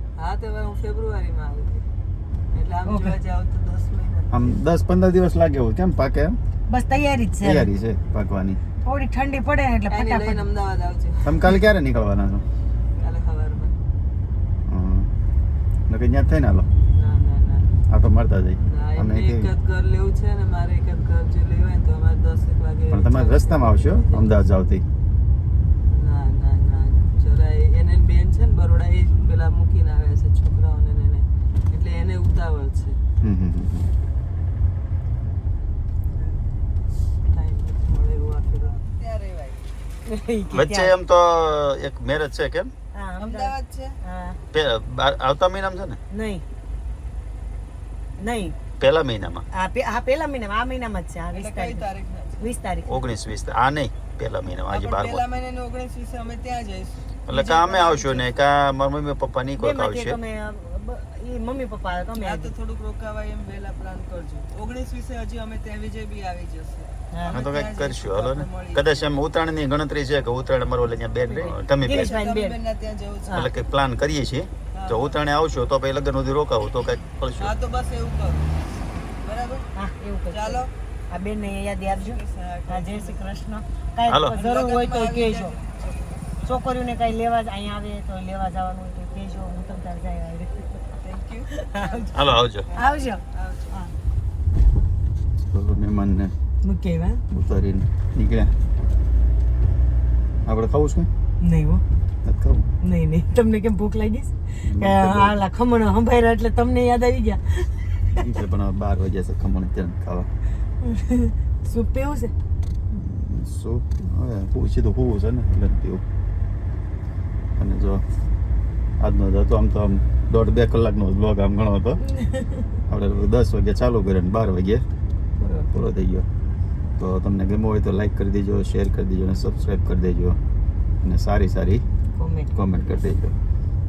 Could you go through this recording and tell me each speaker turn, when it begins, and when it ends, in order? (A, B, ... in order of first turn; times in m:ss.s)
0:00.2-0:01.8 A
0:02.5-0:04.6 A
0:02.8-0:03.1 B
0:04.3-0:06.4 C
0:06.7-0:07.7 B
0:07.4-0:08.6 C
0:08.8-0:10.4 B
0:09.9-0:11.4 A
0:11.2-0:12.4 C
0:13.0-0:13.7 A
0:14.7-0:15.1 C
0:15.9-0:16.7 C
0:16.9-0:17.6 A
0:17.9-0:19.5 C
0:18.6-0:24.3 A
0:22.9-0:24.8 C
0:25.9-0:33.0 A
0:33.2-0:33.9 C
0:36.1-0:36.4 A
0:37.3-0:39.6 A
0:40.1-0:40.9 B
0:40.5-0:42.7 C
0:42.9-0:44.4 B
0:43.2-0:44.0 A
0:44.5-0:46.0 C
0:46.1-0:46.4 B
0:48.2-0:48.5 B
0:48.8-0:49.4 C
0:49.5-0:51.8 B
0:51.3-0:52.6 A
0:52.4-0:53.0 B
0:52.8-0:55.2 C
0:54.7-0:58.4 A
0:57.3-1:00.2 C
0:59.6-1:02.5 B
1:02.1-1:09.0 A
1:07.1-1:07.4 B
1:07.3-1:12.1 C
1:11.3-1:13.4 A
1:11.3-1:12.6 B
1:13.3-1:17.5 C
1:14.7-1:15.2 A
1:17.4-1:18.4 A
1:19.2-1:19.7 A
1:19.7-1:25.5 B
1:20.3-1:20.7 A
1:21.9-1:23.2 A
1:24.1-1:24.4 C
1:24.3-1:26.4 A
1:26.4-1:30.6 B
1:31.0-1:33.9 A
1:31.5-1:32.1 B
1:32.1-1:32.7 C
1:32.7-1:33.2 B
1:35.5-1:36.3 C
1:36.6-1:37.2 B
1:37.3-1:38.5 C
1:40.4-1:41.1 C
1:41.4-1:41.8 B
1:42.2-1:42.7 C
1:42.8-1:47.7 B
1:44.6-1:45.4 C
1:48.2-1:50.3 C
1:50.8-1:52.3 B
1:52.9-1:56.0 C
1:57.6-1:58.0 C
1:59.0-2:02.0 C
2:02.2-2:02.5 B
2:02.9-2:04.8 C
2:05.4-2:05.7 B
2:05.6-2:06.2 C
2:07.0-2:10.4 C
2:11.0-2:11.8 C
2:12.2-2:12.5 B
2:12.5-2:13.3 C